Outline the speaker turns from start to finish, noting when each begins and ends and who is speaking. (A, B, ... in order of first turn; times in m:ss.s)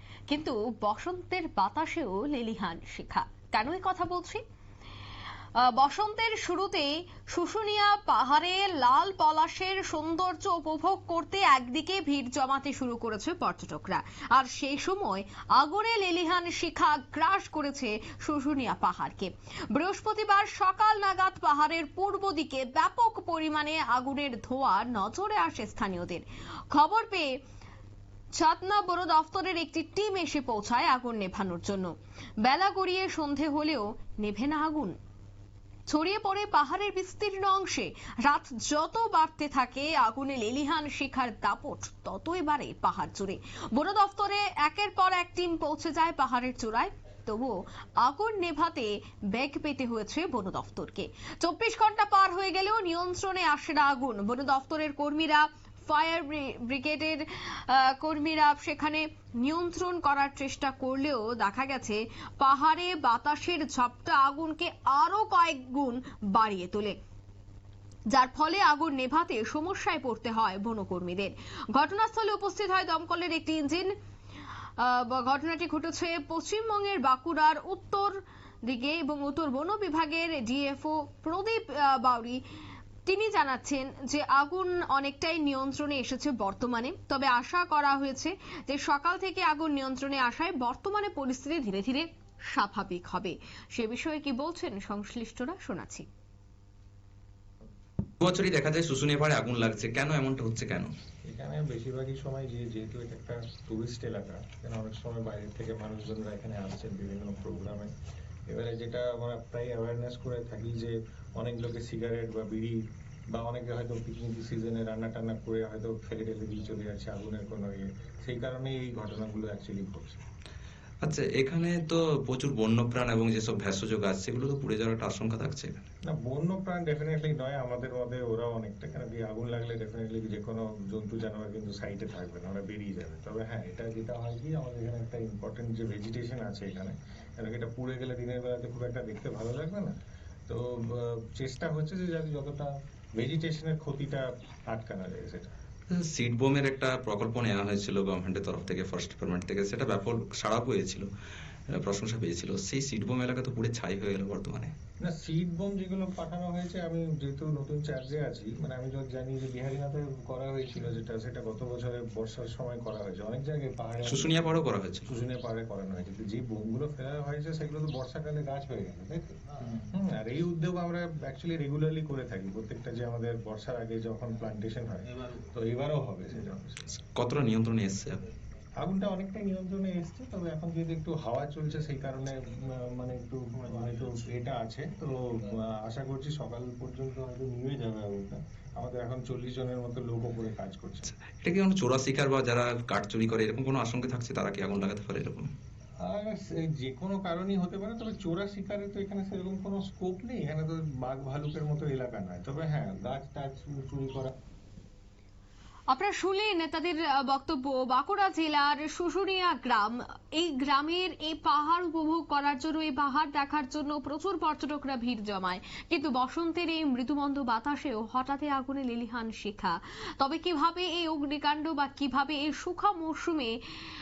0:00.3-0:04.4 A
0:05.7-0:27.4 A
0:28.3-0:34.9 A
0:35.9-1:07.0 A
1:08.1-1:13.9 A
1:14.8-1:22.4 A
1:23.0-1:36.0 A
1:38.2-1:40.9 B
1:41.2-1:47.9 C
1:48.5-1:52.8 C
1:53.3-2:00.2 C
2:01.0-2:05.8 B
2:06.0-2:19.9 C
2:20.5-2:25.5 C
2:25.9-2:31.1 B
2:31.7-2:34.7 B
2:35.0-2:56.8 C
2:44.0-2:45.1 B
2:57.0-2:58.2 B
2:58.8-3:11.1 C
3:11.2-3:15.5 B
3:16.0-3:24.3 C
3:25.9-3:43.6 A